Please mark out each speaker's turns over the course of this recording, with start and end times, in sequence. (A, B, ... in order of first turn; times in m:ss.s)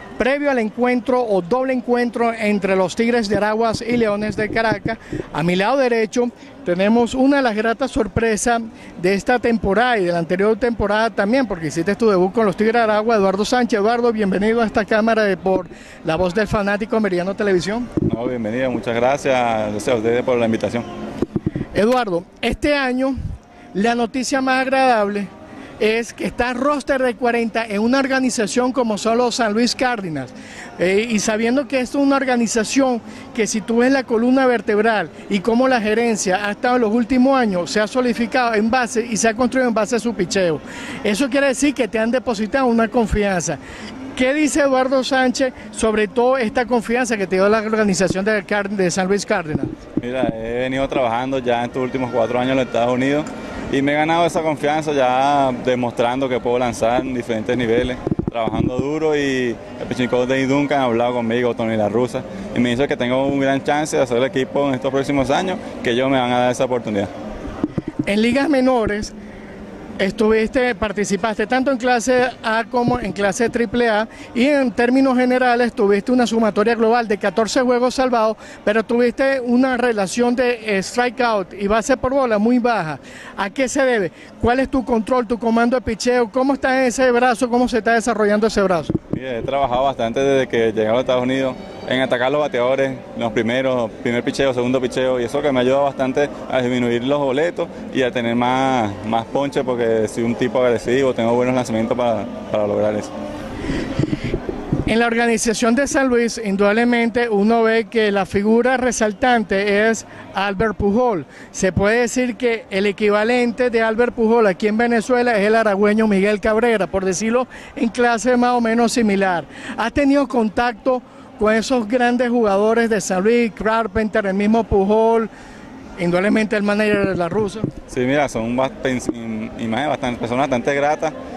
0:00.2-0:17.9 A
0:18.0-0:20.8 B
0:21.7-0:23.2 A
0:23.7-0:43.6 A
0:44.1-0:49.7 A
0:50.0-1:07.1 B
1:08.1-1:09.1 A
1:10.0-1:28.9 A
1:29.1-1:43.1 B
1:44.8-2:05.3 A
2:06.0-2:07.7 A
2:07.9-2:11.1 B